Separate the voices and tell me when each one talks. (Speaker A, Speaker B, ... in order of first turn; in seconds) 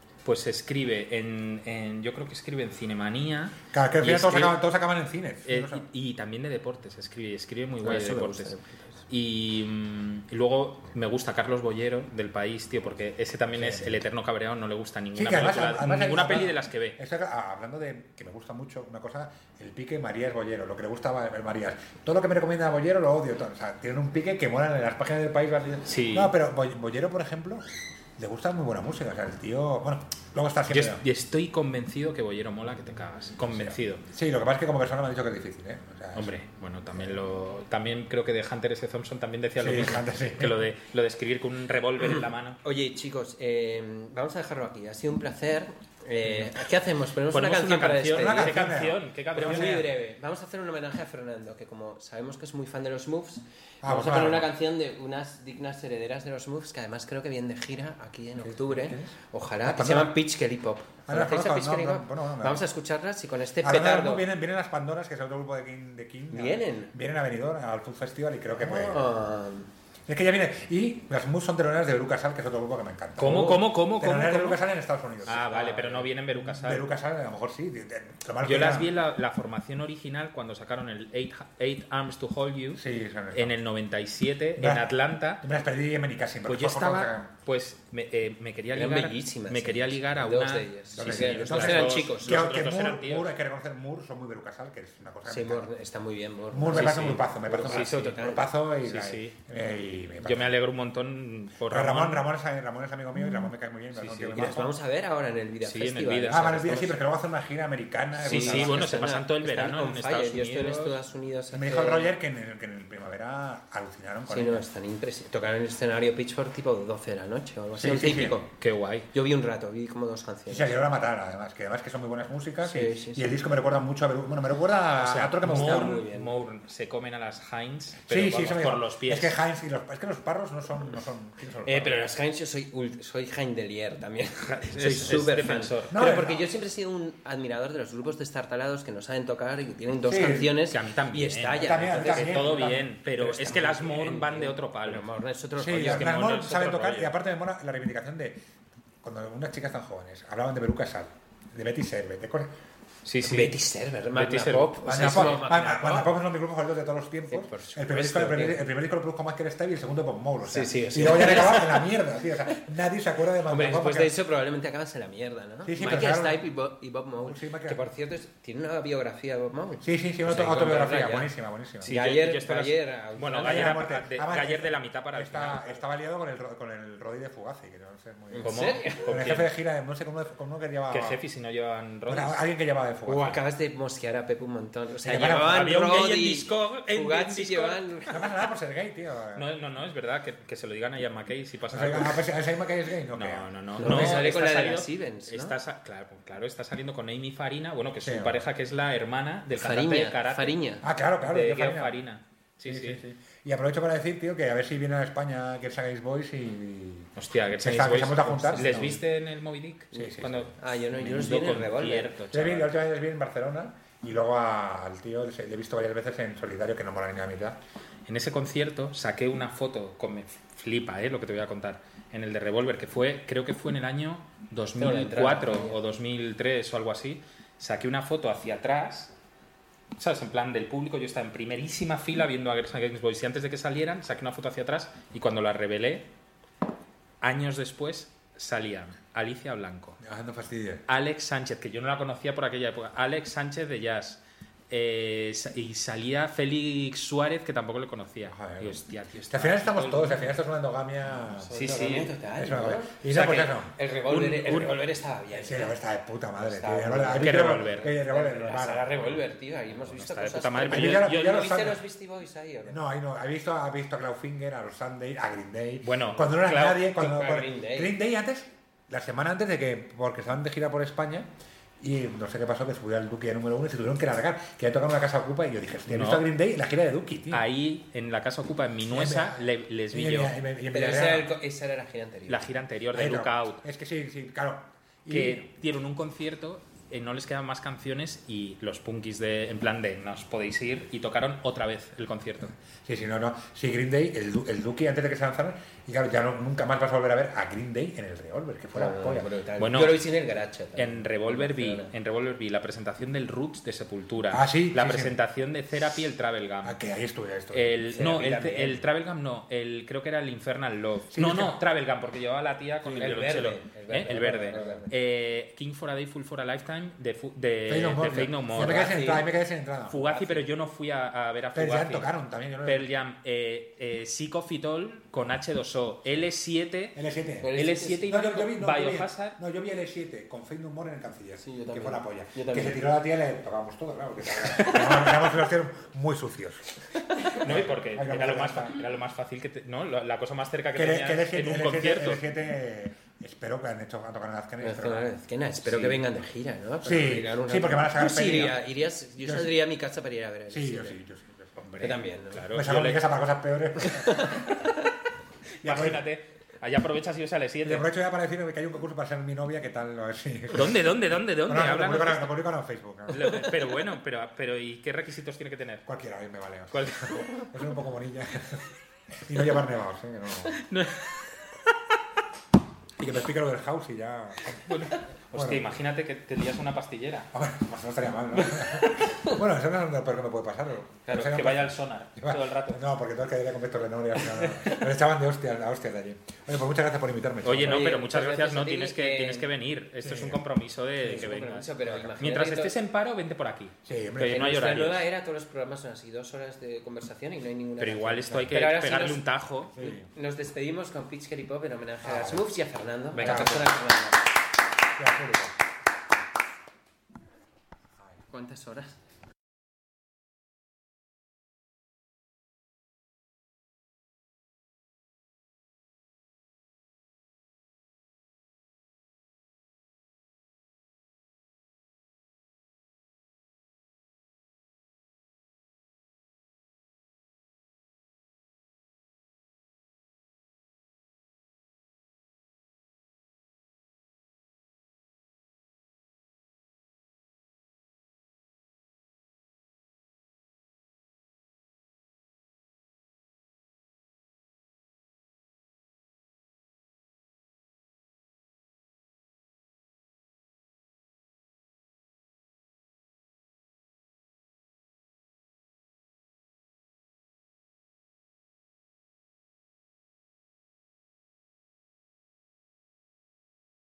Speaker A: 0.2-4.6, 5.5-8.5, 9.1-16.9, 25.9-26.3, 30.7-34.0, 36.1-42.6, 47.3-49.9, 73.2-74.6, 75.2-76.9, 78.4-85.4, 86.4-93.3, 96.7-99.3, 100.2-102.3, 103.9-104.6, 105.6-106.6, 108.2-110.9, 117.8-119.1, 125.0-129.3, 134.4-136.1, 140.6-145.1, 145.7-147.2, 153.0-153.6, 154.1-155.4, 171.8-175.8, 178.4-179.5, 180.9-182.4, 185.3-188.3, 189.3-192.3, 193.1-200.6, 201.2-203.0, 207.2-212.7, 218.1-229.1, 230.0-236.1, 237.2-240.0, 240.9-250.3, 251.5-252.1, 254.1-254.8, 257.2-258.0, 259.8-261.7, 265.8-266.9, 275.9-276.2, 277.3-280.4, 282.3-283.6, 285.1-292.5, 299.6-300.1, 300.8-306.8, 307.5-319.3, 319.9-322.1, 322.6-327.0, 327.5-329.4, 337.2-342.2, 345.6-346.0, 351.6-353.0, 355.6-357.9, 360.5-362.4, 363.1-365.8, 366.7-367.6, 370.5-371.8, 374.6-377.3, 378.6-379.2, 381.1-382.8, 384.5-384.8, 387.4-395.1, 397.8-399.7, 403.2-403.5
Speaker B: 3.7-5.8, 13.6-14.0, 15.1-27.6, 28.2-31.0, 33.5-36.3, 39.6-40.6, 48.1-49.8, 53.8-54.5, 58.4-59.1, 59.6-60.1, 61.1-62.6, 63.6-69.1, 70.1-75.7, 76.3-78.9, 82.7-83.6, 84.6-87.3, 90.9-95.7, 96.5-100.5, 101.7-104.7, 106.3-109.0, 111.5-114.6, 117.8-118.4, 120.5-126.0, 128.1-132.0, 135.9-136.5, 140.1-140.6, 141.6-143.8, 145.6-148.4, 149.0-152.5, 154.8-164.1, 165.6-166.5, 167.2-167.8, 169.8-171.9, 173.4-181.2, 182.1-183.4, 185.0-185.7, 188.1-189.5, 191.7-194.2, 198.0-198.4, 200.8-202.0, 202.6-209.0, 209.9-210.5, 212.3-217.6, 240.0-240.8, 248.2-251.7, 252.3-253.7, 255.3-259.0, 260.7-261.8, 262.7-277.4, 278.9-279.4, 279.9-281.3, 282.9-285.5, 292.7-299.3, 304.3-305.1, 306.6-307.9, 311.1-311.6, 317.7-320.4, 321.5-322.9, 326.9-338.8, 340.7-345.1, 346.8-348.6, 349.2-349.5, 350.5-351.8, 352.5-354.7, 355.6-356.0, 357.6-360.9, 361.4-363.5, 365.9-370.6, 373.0-375.8, 377.3-387.9, 390.0-390.4, 391.0-391.3, 393.8-394.5, 399.7-400.1, 402.0-402.4, 403.2-403.7, 405.0-405.6
Speaker C: 7.8-8.8, 42.6-48.6, 49.3-64.2, 66.3-66.9, 68.6-69.7, 73.2-73.6, 75.4-76.0, 88.7-92.4, 95.3-98.5, 104.3-107.0, 108.2-112.1, 114.3-118.5, 119.1-120.8, 122.6-123.3, 125.4-126.3, 131.6-142.8, 143.6-146.3, 153.2-156.1, 157.3-158.6, 160.4-161.9, 163.5-171.3, 171.8-173.8, 178.3-179.1, 183.1-188.2, 193.8-195.6, 199.5-200.8, 210.6-212.1, 224.8-225.8, 251.4-255.8, 256.4-262.8, 266.9-267.9, 280.7-282.5, 298.7-301.9, 307.9-308.8, 312.8-314.9, 327.4-328.1, 331.4-332.9, 334.5-335.1, 344.6-351.0, 351.8-352.4, 354.1-354.4, 387.6-389.5, 391.1-392.7, 394.2-404.2, 408.3-408.9